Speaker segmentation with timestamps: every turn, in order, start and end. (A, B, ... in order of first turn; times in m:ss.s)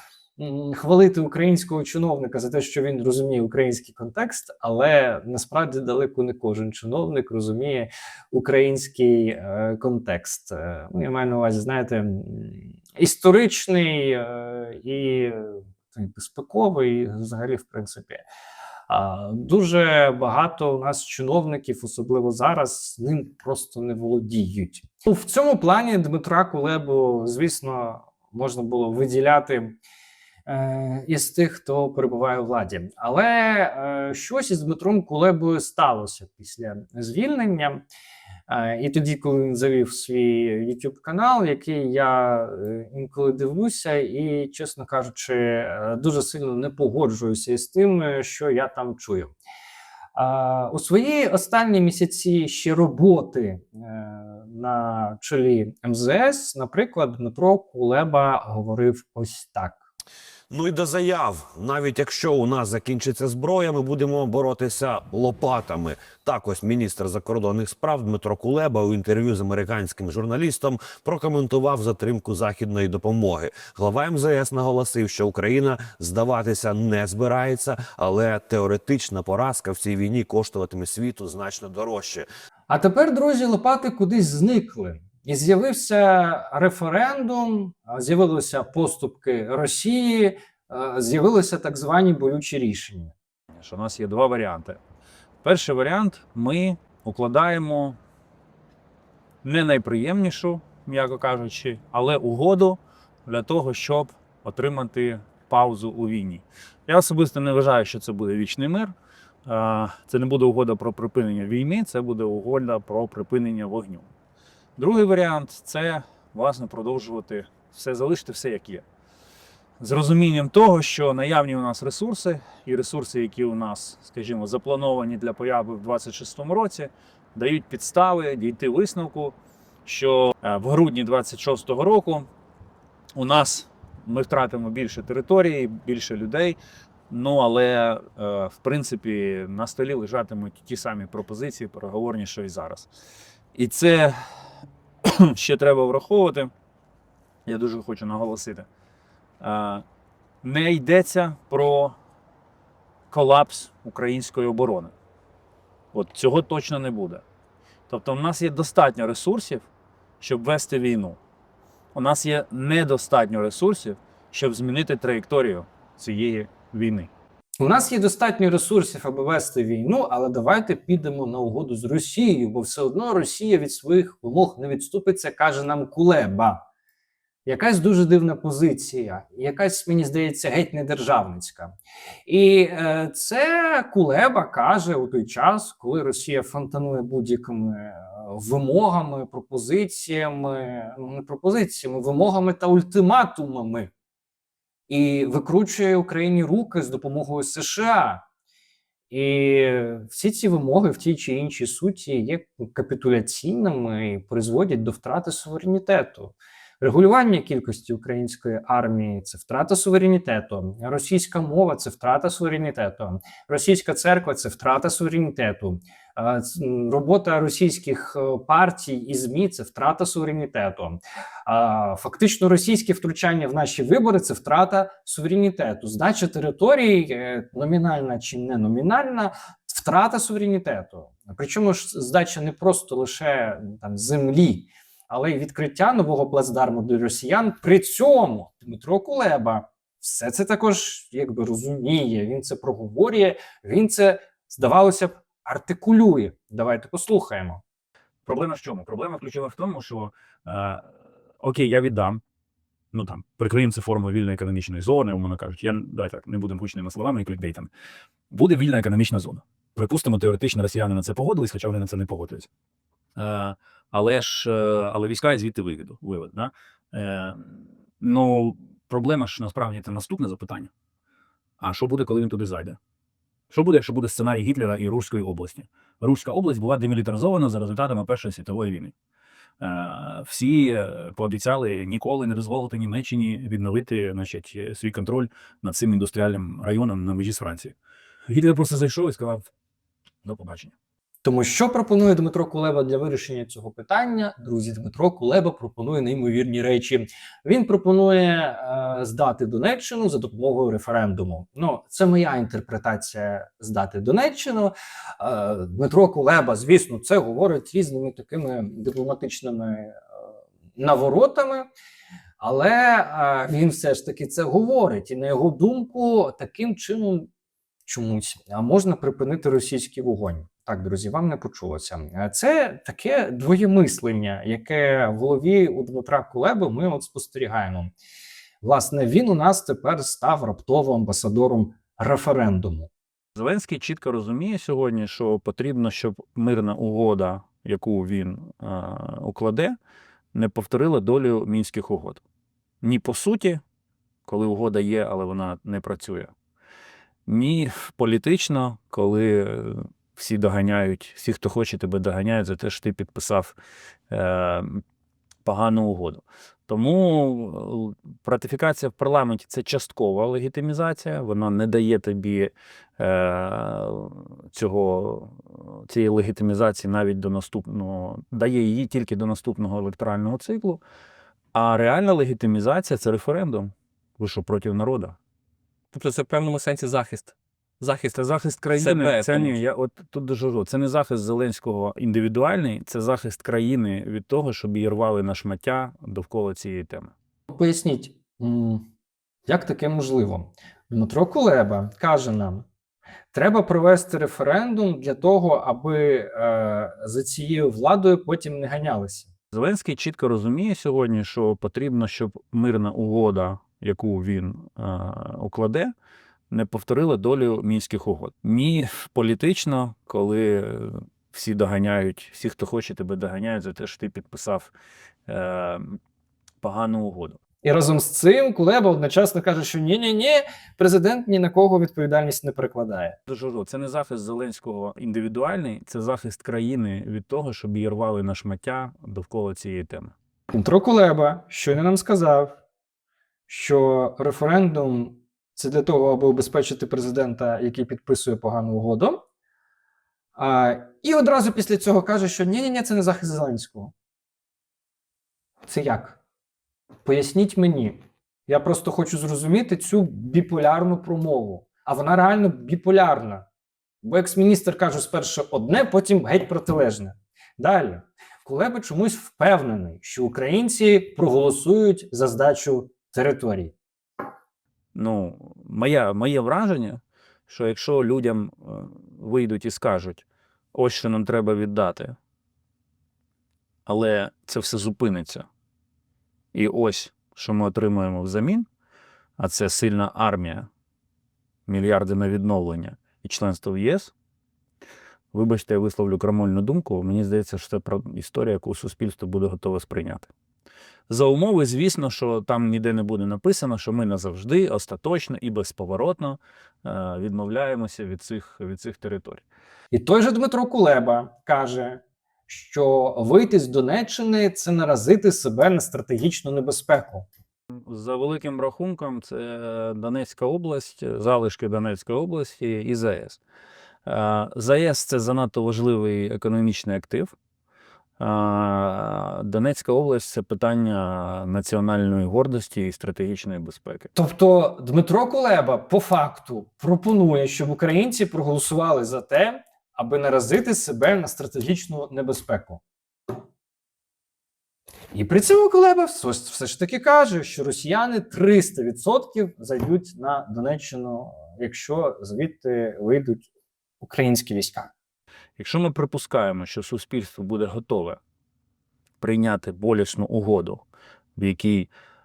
0:00.4-0:18.2 A
0:18.9-0:29.8 A
0:30.5-0:37.8 A
0:38.5-0:49.3 A
0:50.2-0:59.8 A
1:00.5-1:22.3 B
1:22.7-1:33.1 A
1:33.5-1:34.8 C
1:35.4-1:38.0 C
1:39.4-1:48.9 C
1:49.4-1:54.1 C
1:54.8-1:58.8 C
1:59.8-2:12.3 C
2:13.1-2:16.6 C
2:17.1-2:22.9 C
2:23.5-2:26.5 C
2:27.4-2:28.7 C
2:29.4-2:29.8 C
2:30.4-2:32.0 C
2:33.1-2:34.9 C
2:35.9-2:37.2 C
2:37.9-2:39.7 C
2:40.2-2:41.2 C
2:41.9-2:47.1 C
2:47.6-2:56.6 A
2:57.4-3:01.7 A
3:02.2-3:13.9 A
3:14.9-3:18.2 A
3:19.1-4:07.6 A
4:08.2-4:12.2 C
4:12.9-4:17.7 C
4:18.3-4:22.5 C
4:23.1-4:30.7 C
4:31.6-4:32.8 C
4:33.5-4:38.9 C
4:39.6-4:47.7 C
4:48.3-4:49.5 C
4:50.2-4:50.7 C
4:51.2-5:10.0 A
5:10.8-5:11.7 A
5:12.4-5:17.3 A
5:17.9-5:27.9 A
5:28.6-5:32.9 A
5:33.3-5:39.8 C
5:40.3-5:42.2 C
5:42.8-5:43.6 C
5:44.2-5:46.3 C
5:47.2-5:53.5 C
5:54.1-5:54.8 C
5:55.4-6:10.8 C
6:11.5-6:15.2 C
6:15.9-6:18.1 D
6:18.1-6:27.1 C
6:18.7-6:19.6 D
6:27.5-6:28.9 A
6:29.4-6:32.6 A
6:33.3-6:39.3 A
6:39.5-6:45.9 C
6:46.5-6:54.7 C
6:55.3-6:56.0 C
6:56.6-6:57.4 C
6:57.6-7:03.2 A
7:03.3-7:10.1 C
7:10.5-7:12.6 A
7:13.5-7:19.2 A
7:20.4-7:23.9 A
7:25.6-7:26.2 A
7:27.0-7:33.4 A
7:34.0-7:43.7 A
7:44.9-7:52.2 C
7:53.8-7:55.5 C
7:56.5-7:58.7 C
7:59.4-8:00.7 C
8:01.7-8:04.1 C
8:05.3-8:10.3 C
8:11.1-8:19.4 C
8:19.9-8:27.3 A
8:27.8-8:33.4 C
8:34.0-8:37.3 C
8:38.2-8:44.1 C
8:44.1-8:52.8 A
8:55.1-9:03.5 A
9:04.0-9:04.9 A
9:05.6-9:08.2 C
9:09.2-9:10.8 C
9:11.4-9:11.9 C